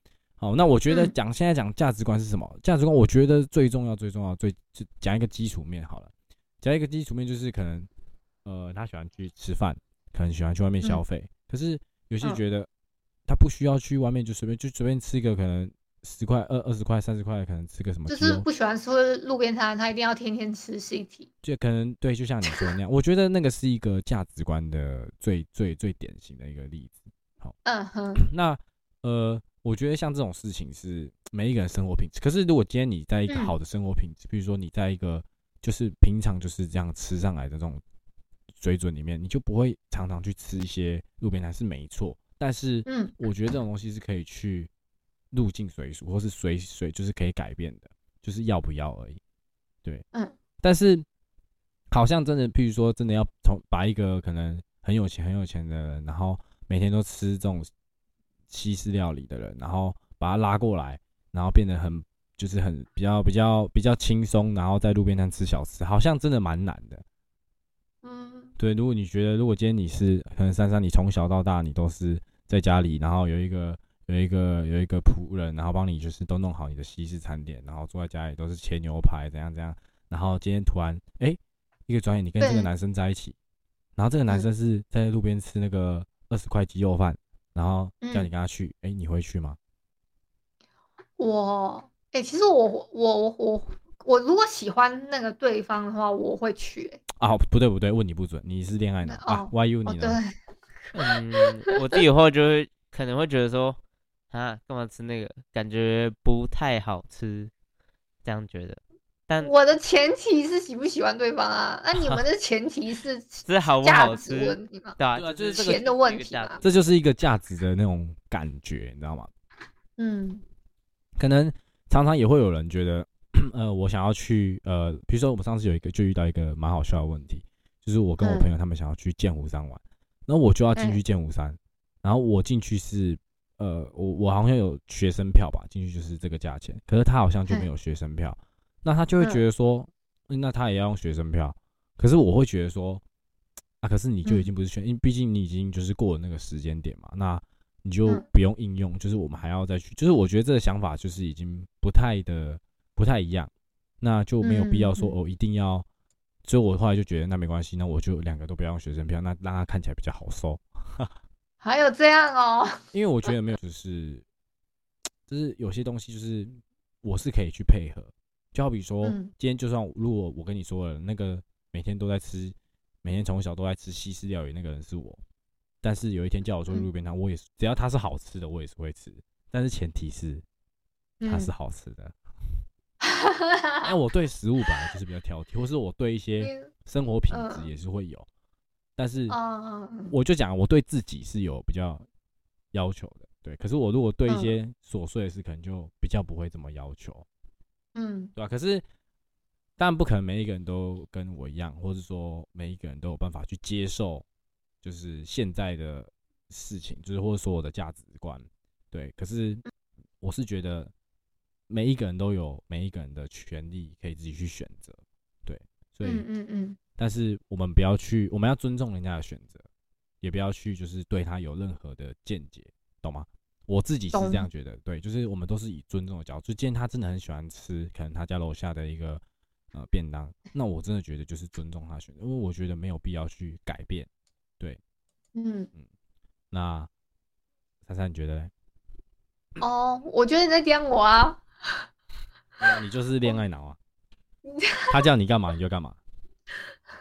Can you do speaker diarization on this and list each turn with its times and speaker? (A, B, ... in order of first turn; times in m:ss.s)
0:00.4-0:06.1 A
0:00.9-0:01.1 B
0:06.6-0:07.9 A
0:08.4-0:12.7 A
0:13.3-0:18.4 A
0:18.1-0:21.3 B
0:21.4-0:27.6 A
0:22.4-0:22.7 B
0:27.6-0:28.2 B
0:28.2-0:37.8 A
0:33.3-0:33.5 B
0:38.6-0:44.7 A
0:42.8-0:43.1 B
0:45.3-0:49.2 A
0:50.6-0:51.0 A
0:51.9-0:57.7 A
0:58.5-1:07.0 A
1:08.0-1:08.5 B
1:08.6-1:23.4 A
1:22.4-1:22.7 B
1:24.0-1:29.6 A
1:28.0-1:28.3 B
1:31.2-1:37.0 B
1:37.2-1:40.2 A
1:39.0-1:40.3 B
1:40.9-1:41.4 B
1:40.9-1:43.8 C
1:44.3-1:47.5 C
1:48.2-1:49.5 C
1:49.4-1:55.0 B
1:53.4-1:56.6 C
1:55.1-1:55.8 A
1:55.6-1:56.6 B
1:56.6-1:59.3 A
2:00.0-2:00.4 B
2:01.2-2:23.0 A
2:08.2-2:08.5 B
2:23.8-2:35.8 A
2:34.4-2:35.1 B
2:36.4-2:41.1 A
2:41.6-2:42.8 B
2:42.9-2:44.2 A
2:45.3-2:55.2 A
2:49.0-2:49.3 B
2:55.8-3:00.4 A
3:01.2-3:01.5 B
3:01.3-3:02.1 A
3:03.0-3:03.9 B
3:03.8-3:08.2 A
3:06.4-3:06.7 B
3:07.3-3:07.7 B
3:09.0-3:09.4 A
3:09.3-3:10.1 B
3:10.1-3:12.0 A
3:12.7-3:17.2 A
3:14.3-3:14.5 B
3:17.9-3:18.3 B
3:18.4-3:18.8 A
3:19.8-3:24.2 A
3:24.8-3:29.6 A
3:30.2-3:30.9 A
3:31.7-3:36.2 A
3:36.0-3:36.8 B
3:37.0-3:39.6 A
3:40.2-3:49.2 A
3:44.1-3:44.5 B
3:49.7-3:54.1 A
3:55.3-3:55.7 B
3:56.5-3:56.9 A
3:57.8-3:58.5 A
3:59.6-4:01.8 B
4:02.6-4:03.8 A
4:04.4-4:05.0 B
4:04.9-4:06.0 A